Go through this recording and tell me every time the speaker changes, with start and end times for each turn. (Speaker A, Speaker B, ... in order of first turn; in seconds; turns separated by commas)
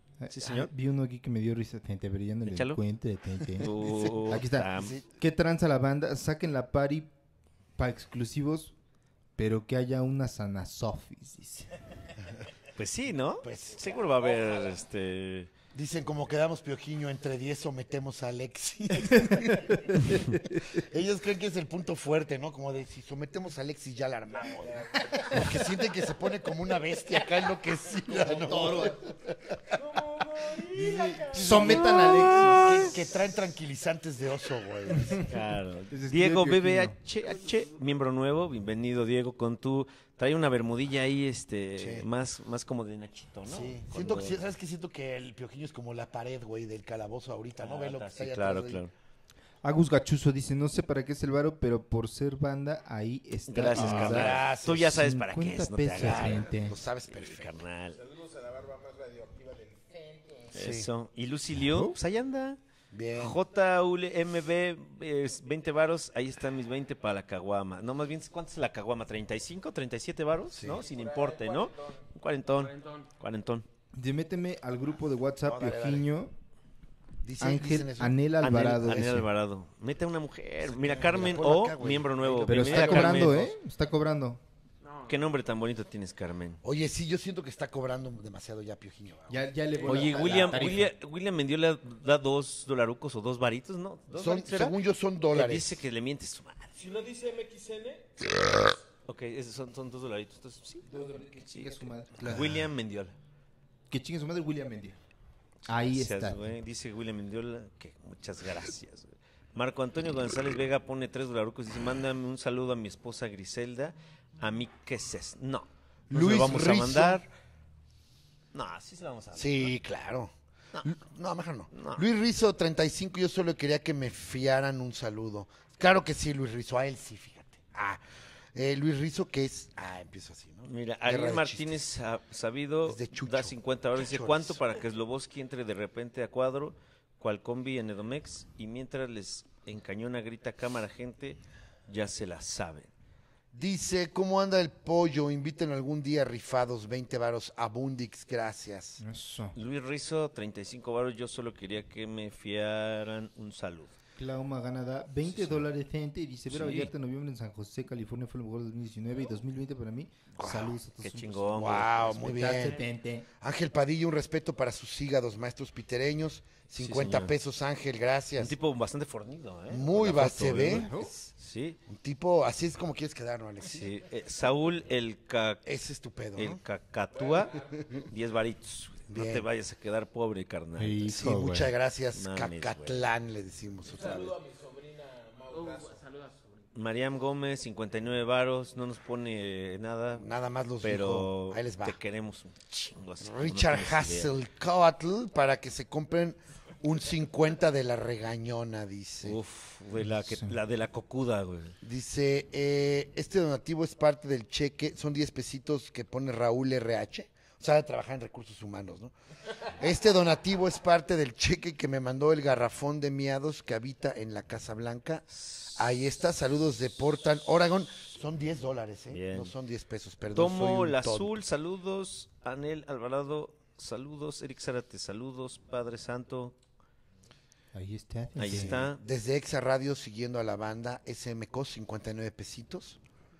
Speaker A: 0.2-7.1, Speaker B: 0.3-0.7, Speaker B: 2.5-2.8, Speaker B: 3.6-5.0, Speaker C: 3.8-4.1, Speaker C: 4.8-5.0, Speaker A: 7.8-8.7, Speaker A: 9.4-11.7, Speaker B: 12.8-15.5, Speaker C: 13.4-14.0, Speaker D: 14.0-14.8, Speaker C: 15.7-19.9, Speaker A: 19.3-20.6, Speaker C: 20.6-29.7, Speaker D: 24.4-25.8, Speaker A: 28.4-29.0, Speaker D: 29.7-32.0, Speaker C: 30.7-35.2, Speaker A: 31.3-32.9, Speaker B: 31.7-32.9, Speaker B: 35.2-44.4, Speaker A: 35.9-37.0, Speaker C: 41.8-42.1, Speaker C: 43.5-48.8, Speaker B: 47.6-48.9, Speaker A: 49.6-56.8, Speaker B: 53.5-58.0, Speaker C: 53.7-55.0, Speaker C: 56.0-57.5, Speaker D: 57.9-60.5, Speaker C: 60.5-60.9, Speaker B: 60.5-62.6, Speaker A: 61.6-61.9, Speaker C: 62.9-63.4, Speaker B: 63.1-73.7, Speaker C: 70.5-70.8, Speaker D: 70.7-72.1, Speaker E: 72.6-73.1, Speaker A: 73.9-76.3, Speaker C: 75.4-76.1, Speaker C: 77.2-78.2, Speaker A: 77.4-79.3, Speaker B: 78.4-83.5, Speaker C: 80.6-83.4, Speaker A: 82.5-84.4, Speaker E: 84.8-85.2, Speaker B: 85.1-86.6, Speaker C: 86.6-90.6, Speaker A: 89.3-90.9, Speaker B: 89.8-94.8, Speaker C: 94.1-95.8, Speaker B: 95.3-96.8, Speaker D: 96.7-98.1, Speaker B: 99.0-103.1, Speaker A: 100.9-102.7, Speaker A: 103.9-105.0, Speaker A: 105.7-106.5, Speaker B: 105.8-117.3, Speaker C: 116.1-117.2, Speaker B: 118.5-119.7, Speaker C: 119.3-128.0, Speaker B: 121.7-122.0, Speaker C: 128.5-131.8, Speaker B: 130.7-142.9, Speaker C: 132.8-134.6, Speaker C: 143.5-149.0, Speaker A: 149.0-149.6, Speaker B: 149.5-153.9, Speaker A: 154.2-163.3, Speaker B: 156.5-156.9, Speaker C: 160.4-160.7, Speaker B: 161.0-162.7, Speaker C: 161.5-162.8, Speaker C: 163.4-168.5, Speaker B: 166.8-167.3, Speaker B: 168.4-171.8, Speaker C: 169.7-171.3, Speaker A: 170.4-171.1, Speaker C: 171.9-174.0, Speaker B: 173.6-175.6, Speaker C: 175.6-176.6, Speaker B: 176.3-181.2, Speaker D: 177.1-178.1, Speaker C: 179.1-179.4, Speaker A: 180.8-181.7, Speaker C: 181.1-184.4, Speaker B: 182.1-183.1, Speaker D: 183.8-186.1, Speaker E: 185.5-186.7, Speaker B: 186.7-190.2, Speaker C: 190.1-192.0, Speaker B: 190.8-194.3, Speaker C: 193.2-199.4, Speaker B: 199.2-201.8, Speaker A: 200.0-200.5, Speaker C: 201.8-209.1, Speaker C: 209.8-221.4, Speaker B: 219.1-219.5, Speaker B: 220.3-226.6, Speaker A: 227.7-228.8, Speaker B: 228.4-229.0, Speaker C: 228.5-233.0